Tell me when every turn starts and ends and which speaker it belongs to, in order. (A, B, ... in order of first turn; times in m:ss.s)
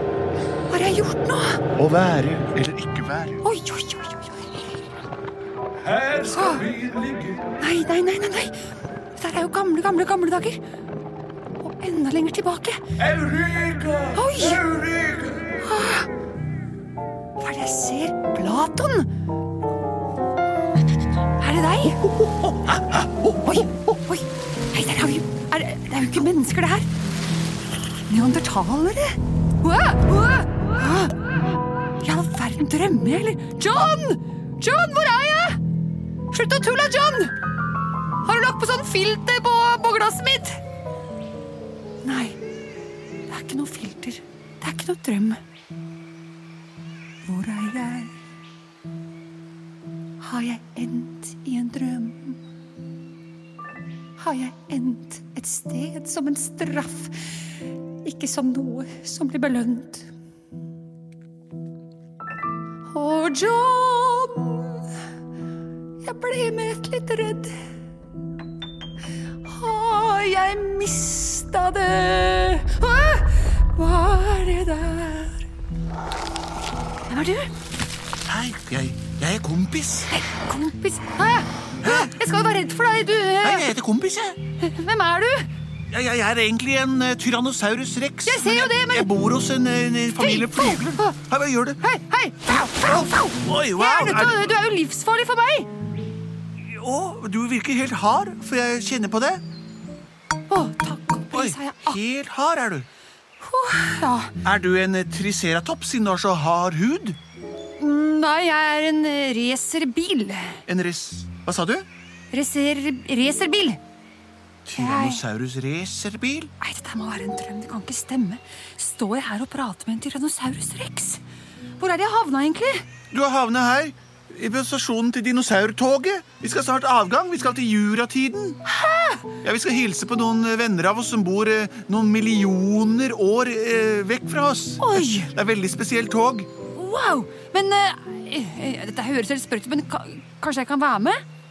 0:00.7-0:01.6 A
0:01.8-0:03.4 B
0:03.4-0:04.7 A
0:05.8-0:07.5 B
0:06.3-0:06.7 A
0:07.6-0:08.5 A
0:09.2-0:10.6 A
0:11.6-0:12.8 A
0:13.0-0:15.6 B
0:14.1-0:14.6 A
0:15.6-0:16.1 A
0:17.4-0:19.1 A
0:21.4-0:22.0 A
0:23.4-0:26.9 A
0:28.1-0:31.3 A
0:32.0-0:35.6 A
0:36.3-0:37.3 A
0:38.2-0:40.6 A
0:42.0-0:42.4 A
0:43.3-0:45.4 A
0:47.2-0:48.1 A
0:50.2-0:52.4 A
0:54.2-0:57.4 A
0:58.0-1:00.1 A
1:02.9-1:04.9 A
1:06.0-1:07.6 A
1:09.4-1:15.4 A
1:17.1-1:17.5 A
1:18.2-1:20.1 B
1:20.1-1:23.7 A
1:21.8-1:22.1 B
1:23.4-1:24.4 B
1:24.6-1:25.5 A
1:25.9-1:31.8 B
1:28.2-1:29.1 A
1:30.2-1:31.1 A
1:31.8-1:35.7 A
1:32.5-1:34.4 B
1:36.6-1:39.4 B
1:40.5-1:42.0 A
1:41.3-1:42.9 B
1:43.4-1:44.3 A
1:44.4-1:47.2 B
1:47.8-1:50.6 A
1:50.6-1:51.8 B
1:52.3-1:53.8 A
1:54.6-1:56.5 B
1:54.8-1:55.2 A
1:56.6-2:01.2 A
2:01.8-2:02.8 A
2:03.1-2:08.6 B
2:08.7-2:09.3 A
2:09.4-2:16.5 B
2:14.8-2:15.3 A
2:16.7-2:21.2 A